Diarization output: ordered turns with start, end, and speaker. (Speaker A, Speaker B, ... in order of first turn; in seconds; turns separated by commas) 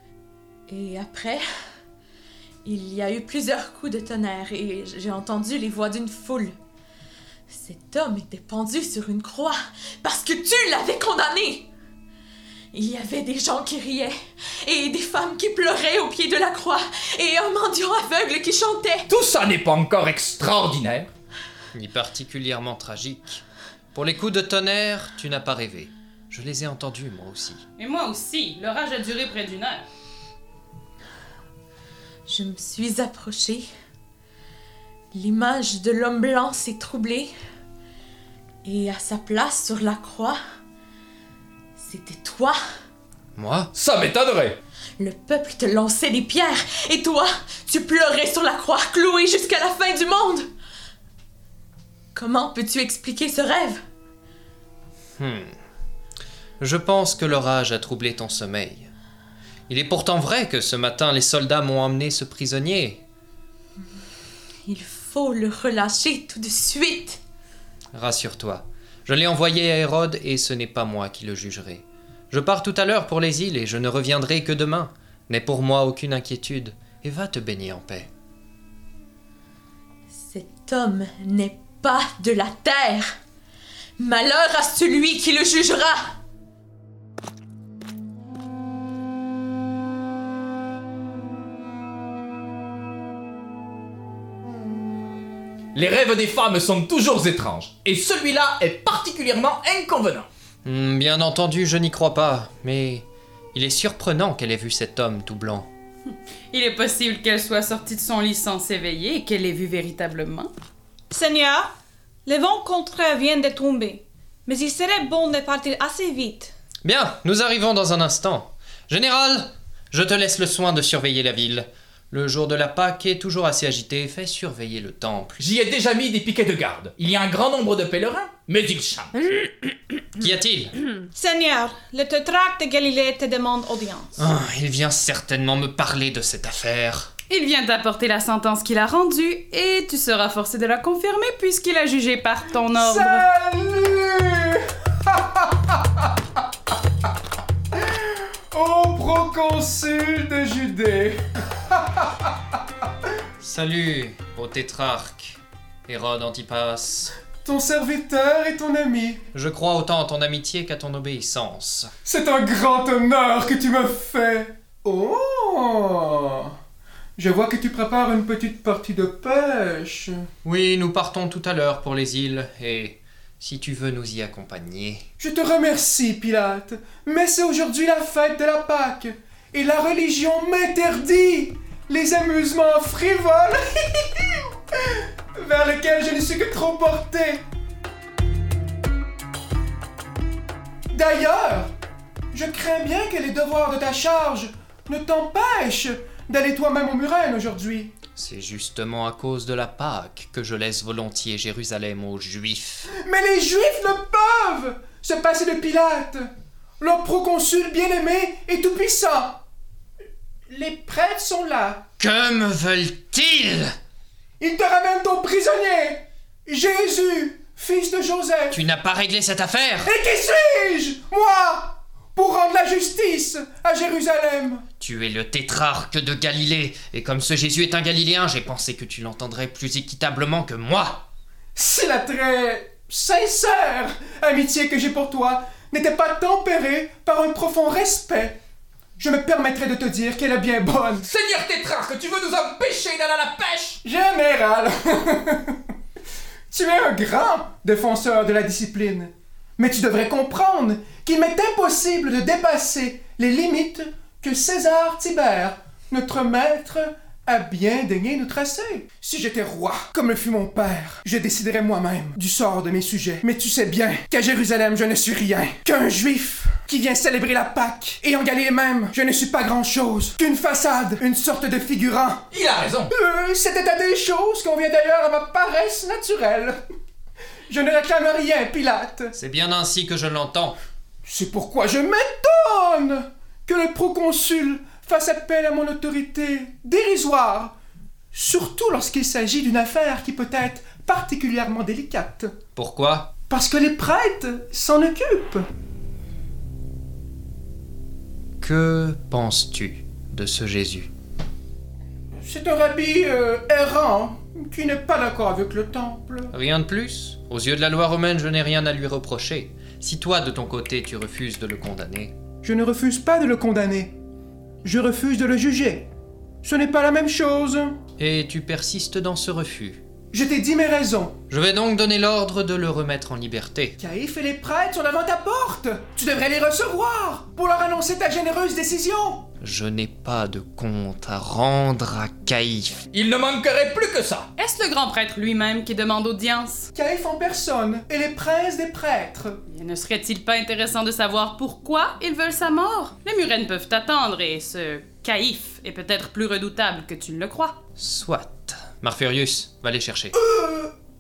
Speaker A: 0.7-1.4, Speaker A: 2.6-6.5, Speaker A: 7.5-11.7, Speaker A: 12.7-19.1, Speaker B: 19.1-21.1, Speaker C: 21.7-23.4, Speaker C: 23.9-27.6, Speaker D: 27.8-29.9, Speaker A: 32.3-33.7, Speaker A: 35.1-37.3, Speaker A: 38.6-40.4, Speaker A: 41.8-42.6, Speaker C: 43.4-43.7, Speaker B: 43.7-44.6, Speaker A: 45.0-50.5, Speaker A: 52.1-53.8, Speaker C: 55.2-55.6, Speaker C: 56.6-58.9, Speaker C: 59.7-63.0, Speaker A: 64.7-67.2, Speaker C: 67.9-78.1, Speaker A: 80.2-83.1, Speaker A: 84.0-86.1, Speaker B: 95.8-100.3, Speaker C: 100.7-105.7, Speaker D: 106.5-110.5, Speaker E: 111.1-111.7, Speaker E: 112.3-116.5, Speaker C: 116.8-125.4, Speaker B: 125.4-129.1, Speaker C: 130.2-130.7, Speaker E: 131.1-134.1, Speaker C: 134.2-137.1, Speaker D: 137.3-143.3, Speaker F: 142.7-146.1, Speaker F: 147.8-152.4, Speaker C: 153.4-157.1, Speaker F: 157.4-159.2, Speaker C: 159.3-161.9, Speaker F: 162.1-166.6, Speaker F: 167.2-170.2, Speaker C: 170.4-175.1, Speaker F: 175.2-187.4, Speaker F: 190.9-191.7, Speaker F: 192.3-197.9, Speaker C: 198.2-202.9, Speaker F: 203.0-206.3, Speaker F: 206.8-209.4, Speaker F: 210.5-211.9, Speaker C: 212.0-213.8, Speaker F: 214.4-218.6, Speaker C: 218.5-219.9, Speaker F: 219.8-224.7, Speaker C: 224.8-231.1, Speaker F: 231.6-238.4, Speaker F: 239.0-241.1, Speaker B: 241.0-243.8, Speaker F: 243.8-245.6, Speaker F: 246.5-272.3, Speaker B: 272.3-272.9, Speaker F: 272.9-276.6, Speaker F: 277.5-279.1, Speaker C: 279.1-280.6, Speaker F: 281.1-287.6, Speaker F: 288.1-292.3, Speaker C: 292.6-293.1, Speaker F: 293.3-295.4, Speaker C: 298.4-300.9, Speaker F: 302.2-306.3, Speaker C: 306.3-312.1, Speaker F: 312.4-314.0, Speaker F: 314.6-315.9, Speaker F: 316.4-317.8, Speaker C: 318.0-319.8, Speaker F: 320.1-321.2, Speaker C: 321.3-323.8, Speaker F: 323.8-329.3, Speaker C: 329.4-332.8, Speaker B: 332.9-334.3, Speaker D: 334.4-336.7, Speaker F: 336.7-339.4, Speaker D: 339.5-347.6, Speaker C: 347.8-350.1, Speaker F: 350.1-350.7